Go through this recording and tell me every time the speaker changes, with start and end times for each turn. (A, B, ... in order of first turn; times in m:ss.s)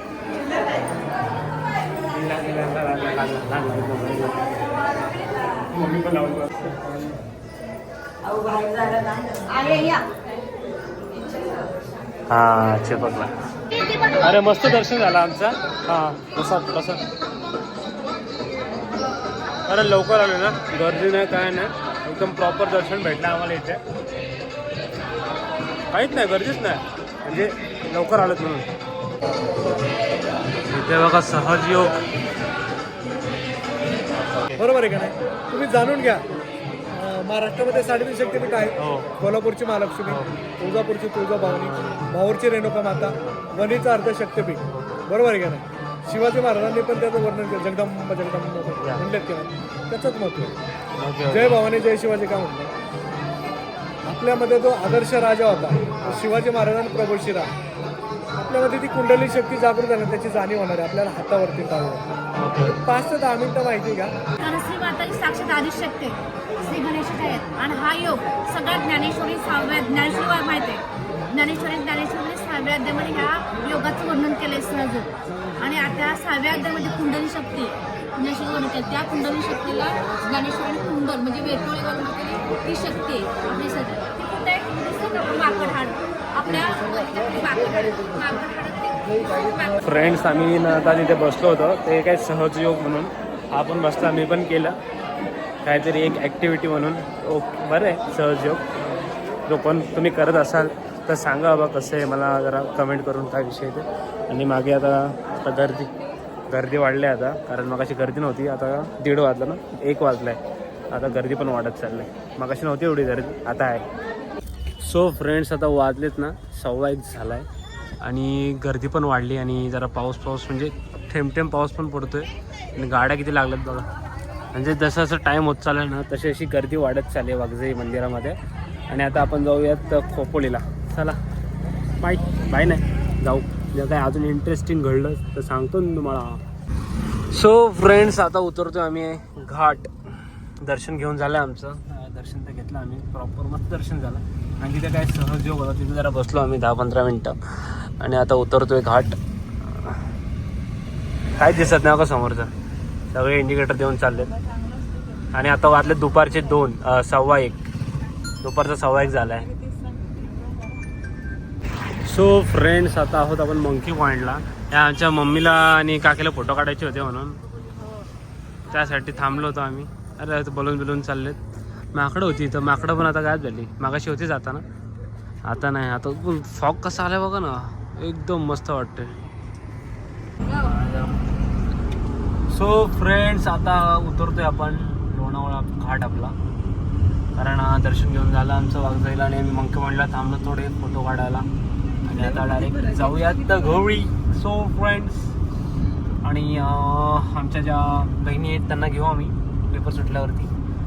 0:02.1-0:04.6 A
0:05.6-0:06.9 A
0:09.6-0:10.0 B
0:12.3-0:13.3 A
0:14.1-0:17.0 A
0:19.7-0:23.8 A
0:25.9-0:28.7 A
0:30.7-0:32.0 A
0:34.6-0:36.2 C
0:36.9-0:50.5 C
0:38.8-0:39.1 A
0:40.1-0:40.4 A
0:41.6-0:42.0 A
0:44.7-0:45.0 A
0:51.0-0:51.6 A
0:51.3-0:52.7 C
0:54.0-0:57.5 C
0:58.4-1:02.1 C
1:02.3-1:02.8 A
1:02.8-1:04.1 C
1:04.4-1:29.8 B
1:29.8-1:34.8 A
1:35.6-1:38.7 A
1:39.5-1:45.9 A
1:46.5-1:50.4 A
1:50.9-1:53.8 A
1:54.8-1:57.5 A
1:58.0-2:03.9 A
2:04.5-2:08.4 A
2:08.9-2:11.2 A
2:12.0-2:16.4 A
2:17.3-2:19.9 A
2:20.6-2:27.4 A
2:28.0-2:29.2 A
2:31.4-2:32.5 A
2:33.1-2:34.3 A
2:35.3-2:37.6 A
2:38.4-2:39.5 A
2:42.0-2:47.4 A
2:48.7-2:51.4 A
2:51.9-2:54.6 A
2:55.4-2:59.2 A
3:00.5-3:01.1 A
3:02.5-3:06.4 A
3:07.4-3:11.5 A
3:12.0-3:15.3 A
3:12.3-3:12.9 B
3:16.2-3:20.5 A